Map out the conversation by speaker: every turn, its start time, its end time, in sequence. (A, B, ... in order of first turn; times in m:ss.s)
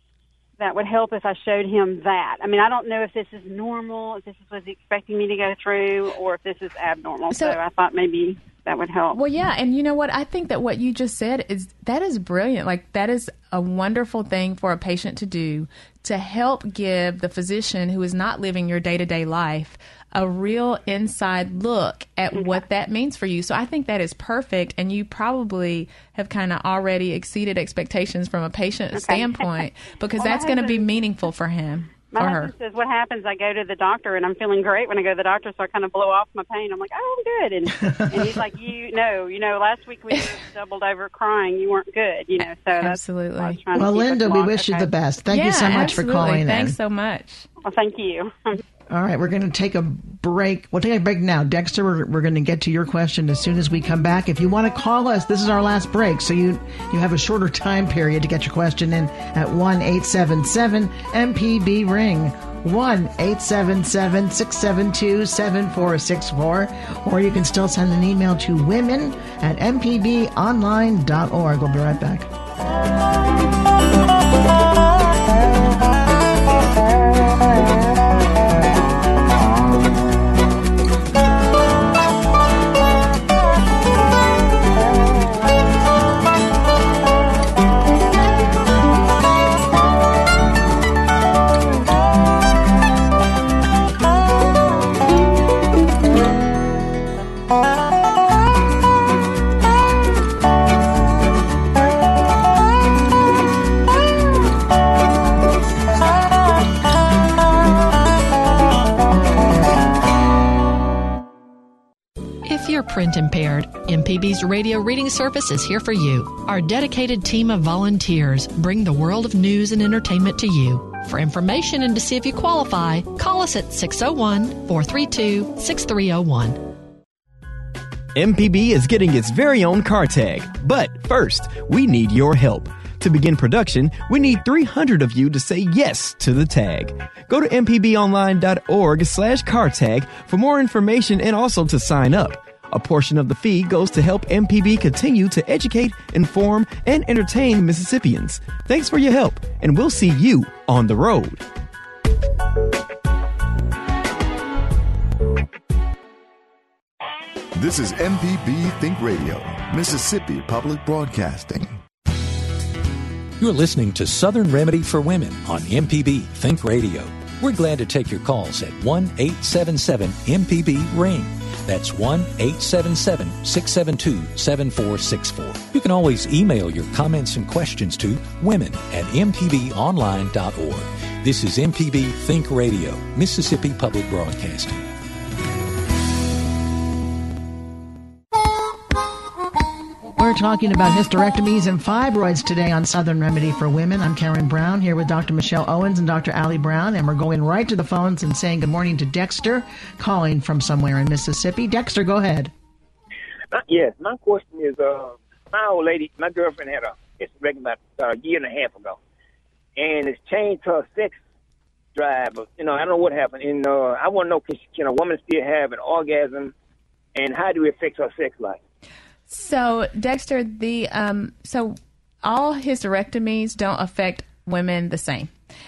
0:00.6-0:09.2 A
0:07.3-0:07.6 B
0:09.1-0:32.5 B
0:22.3-0:22.6 A
0:28.9-0:29.7 A
0:30.2-0:30.9 A
0:32.1-0:44.9 A
0:37.8-0:38.4 C
0:42.8-0:43.6 B
0:43.7-0:46.8 C
0:45.3-0:47.5 B
0:47.6-0:48.6 A
0:48.9-1:12.3 C
1:52.4-2:06.6 D
2:08.1-2:31.4 E
2:37.6-2:41.8 F
2:43.4-3:04.8 G
3:10.2-3:22.5 C
3:23.5-3:29.0 H
3:29.8-3:31.2 H
3:31.9-3:36.5 H
3:37.2-3:38.6 H
3:39.3-3:45.3 B